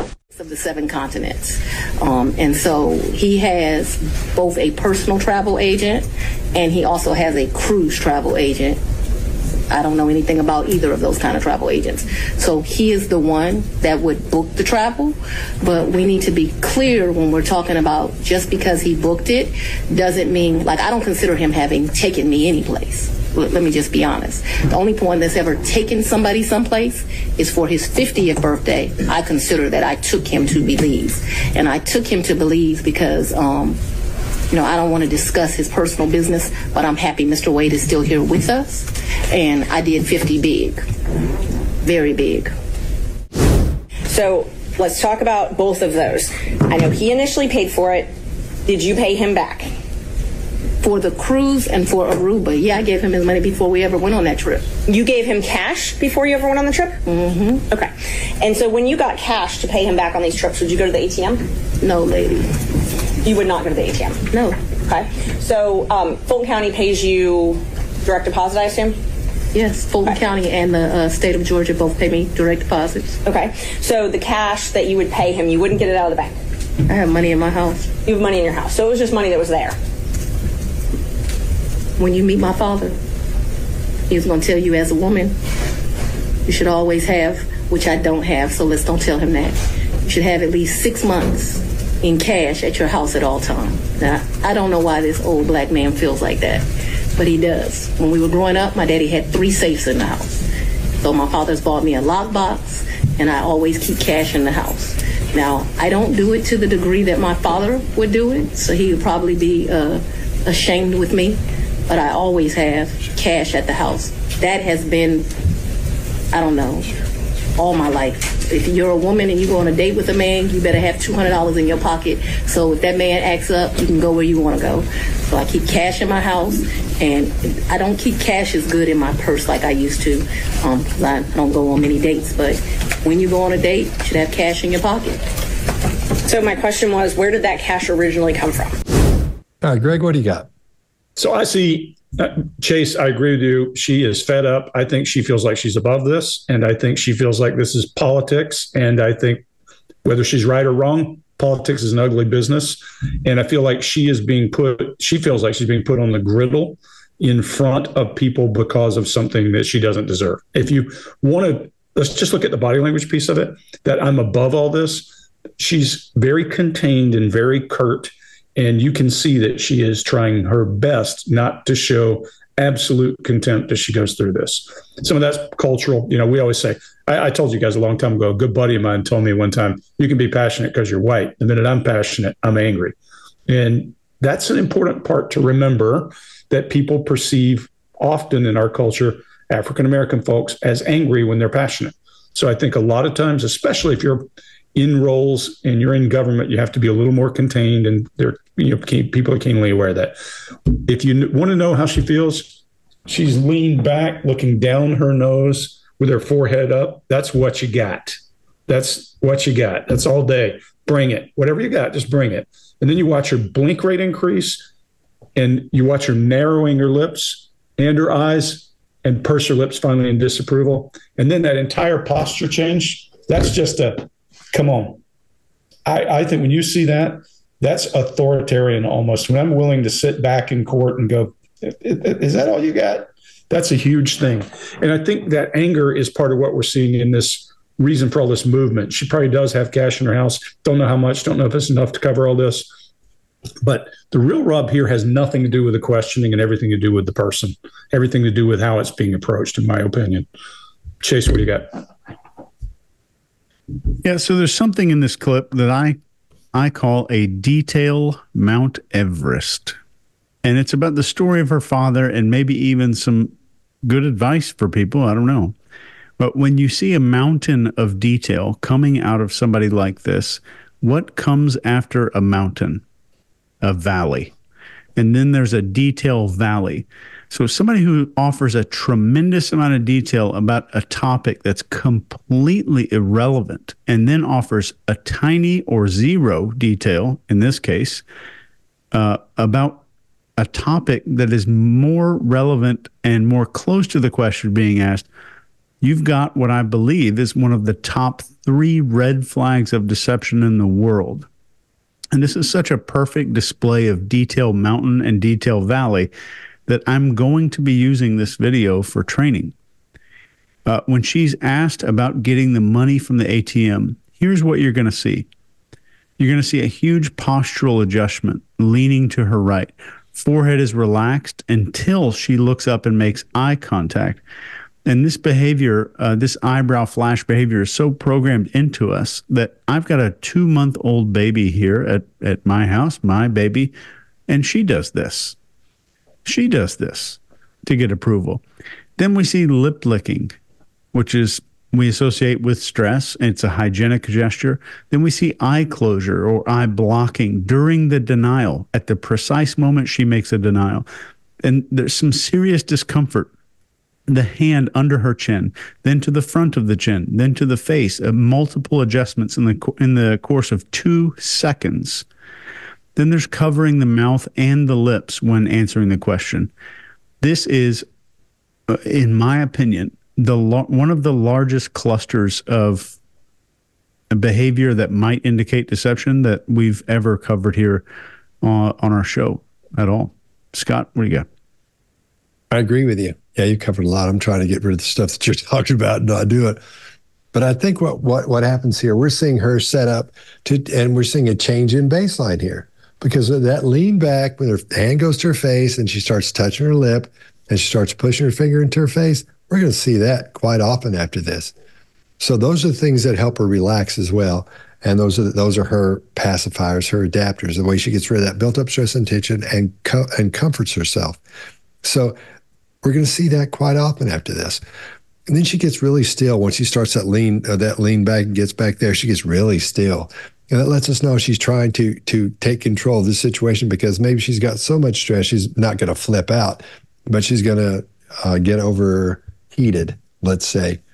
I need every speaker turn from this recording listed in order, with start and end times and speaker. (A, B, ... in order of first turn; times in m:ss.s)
0:00.3-0:08.8 A
0:09.7-0:33.8 A
0:34.5-0:40.8 A
0:41.8-0:42.5 A
0:44.1-0:48.1 B
0:48.7-0:49.7 B
0:50.8-0:54.7 A
0:54.9-0:57.0 B
0:57.1-0:57.6 A
0:57.7-1:01.5 B
1:01.8-1:02.5 A
1:03.2-1:04.2 B
1:04.9-1:09.0 B
1:09.5-1:13.2 A
1:13.2-1:16.4 B
1:16.9-1:17.9 A
1:18.1-1:19.8 B
1:22.0-1:23.0 A
1:24.1-1:25.4 A
1:26.5-1:36.6 A
1:37.2-1:40.3 A
1:41.0-1:55.3 A
1:56.3-1:56.9 A
1:57.6-2:15.2 A
2:16.2-2:18.8 B
2:19.6-2:20.5 C
2:21.2-2:29.5 D
2:30.0-3:03.0 D
3:03.5-3:20.2 D
3:20.7-3:28.2 D
3:28.7-3:34.6 D
3:35.4-3:45.0 D
3:45.9-4:02.7 D
4:03.6-4:10.3 D
4:11.0-4:11.8 D
4:14.0-4:16.0 E
4:16.5-4:19.8 E
4:20.4-4:25.5 E
4:26.2-4:32.8 E
4:33.6-4:34.3 E
4:35.0-4:48.0 E
4:48.9-4:49.8 E
4:50.4-4:55.1 E
4:55.8-5:01.3 E
5:02.1-5:06.1 E
5:06.7-5:09.5 E
5:10.7-5:15.3 E
5:16.2-5:24.2 E
5:24.9-5:33.7 E
5:34.3-5:35.4 E
5:36.2-5:38.4 E
5:39.0-5:40.3 E
5:40.9-5:50.9 E
5:51.4-5:53.3 E
5:54.1-6:02.0 E
6:03.0-6:06.5 E
6:07.2-6:07.9 E
6:08.7-6:13.0 E
6:14.1-6:17.8 E
6:18.4-6:21.3 E
6:22.5-6:26.6 C
6:27.3-6:41.5 C
6:42.2-6:51.2 C
6:51.8-6:52.2 C
6:52.8-6:54.6 C
6:55.3-7:10.8 C